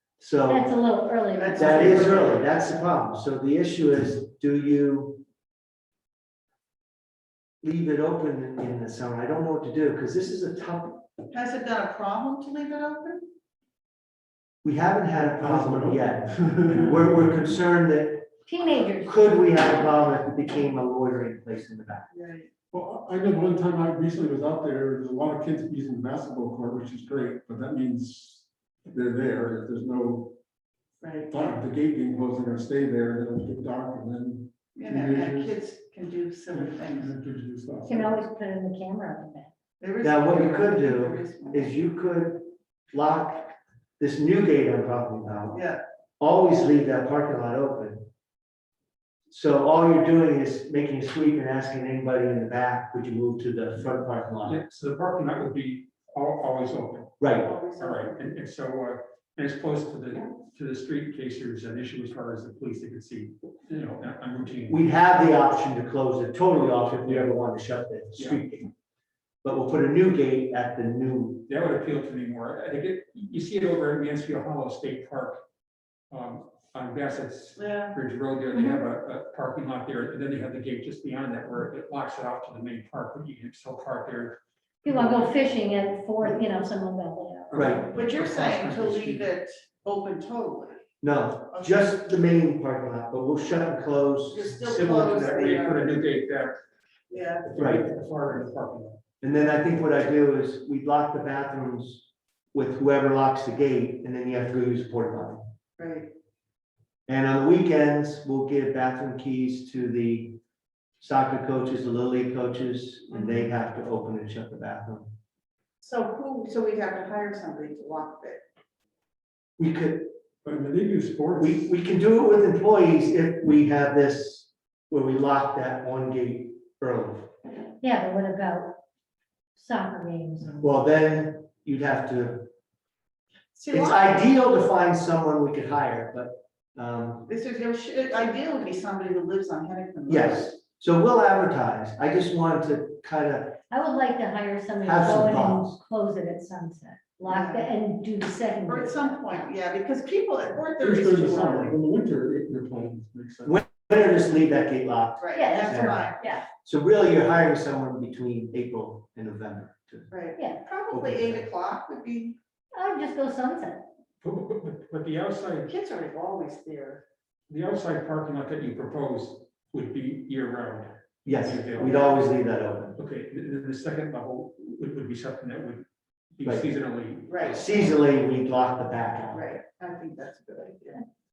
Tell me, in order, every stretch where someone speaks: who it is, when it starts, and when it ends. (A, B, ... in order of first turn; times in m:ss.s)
0:00.2-0:00.7 A
0:00.5-0:02.2 B
0:01.3-0:02.4 C
0:01.6-0:05.2 A
0:07.6-0:11.0 A
0:11.3-0:13.2 C
0:14.6-0:22.1 A
0:15.2-0:17.3 D
0:18.5-0:19.3 B
0:22.1-0:22.5 C
0:22.7-0:30.4 D
0:31.0-0:31.6 C
0:31.3-0:35.6 D
0:34.8-0:37.2 C
0:36.5-0:38.2 D
0:37.9-0:39.5 B
0:39.8-0:41.7 C
0:40.0-0:45.6 A
0:45.5-0:45.8 C
0:46.2-0:48.1 A
0:49.3-0:54.6 A
0:54.4-1:04.8 E
0:57.2-0:57.5 A
0:57.4-0:58.2 C
1:04.7-1:08.7 A
1:06.8-1:07.4 E
1:08.2-1:08.4 E
1:09.4-1:11.5 A
1:11.5-1:15.4 E
1:16.1-1:25.2 E
1:17.6-1:18.0 C
1:18.5-1:18.8 B
1:24.8-1:27.7 B
1:27.5-1:27.9 E
1:27.5-1:29.2 A
1:27.9-1:30.8 C
1:31.0-1:34.5 A
1:31.5-1:31.9 C
1:34.3-1:36.0 C
1:34.6-1:36.6 E
1:37.1-1:37.5 C
1:37.5-1:39.0 E
1:37.6-1:37.8 A
1:39.2-1:45.4 A
1:45.8-1:46.1 C
1:47.1-1:50.4 A
1:51.0-1:55.1 A
1:55.8-1:58.4 C
1:59.6-2:00.1 A
2:00.4-2:01.6 D
2:01.4-2:07.3 A
2:07.8-2:08.8 B
2:09.6-2:10.8 B
2:10.6-2:12.5 A
2:13.6-2:14.3 C
2:13.7-2:17.3 A
2:17.3-2:20.5 C
2:20.1-2:23.6 A
2:23.7-2:29.3 B
2:24.8-2:25.8 A
2:27.2-2:27.7 C
2:28.7-2:31.7 C
2:30.8-2:33.6 D
2:33.4-2:40.1 A
2:35.2-2:36.3 C
2:35.4-2:36.4 B
2:40.1-2:42.4 C
2:40.4-2:40.6 B
2:40.9-2:41.5 A
2:42.7-2:43.8 B
2:44.2-2:45.7 E
2:45.7-2:47.0 C
2:47.5-2:52.0 E
2:51.2-2:53.0 A
2:51.8-2:52.1 C
2:53.0-2:57.6 E
2:57.3-2:57.7 C
2:57.5-2:59.4 A
2:59.3-3:01.0 C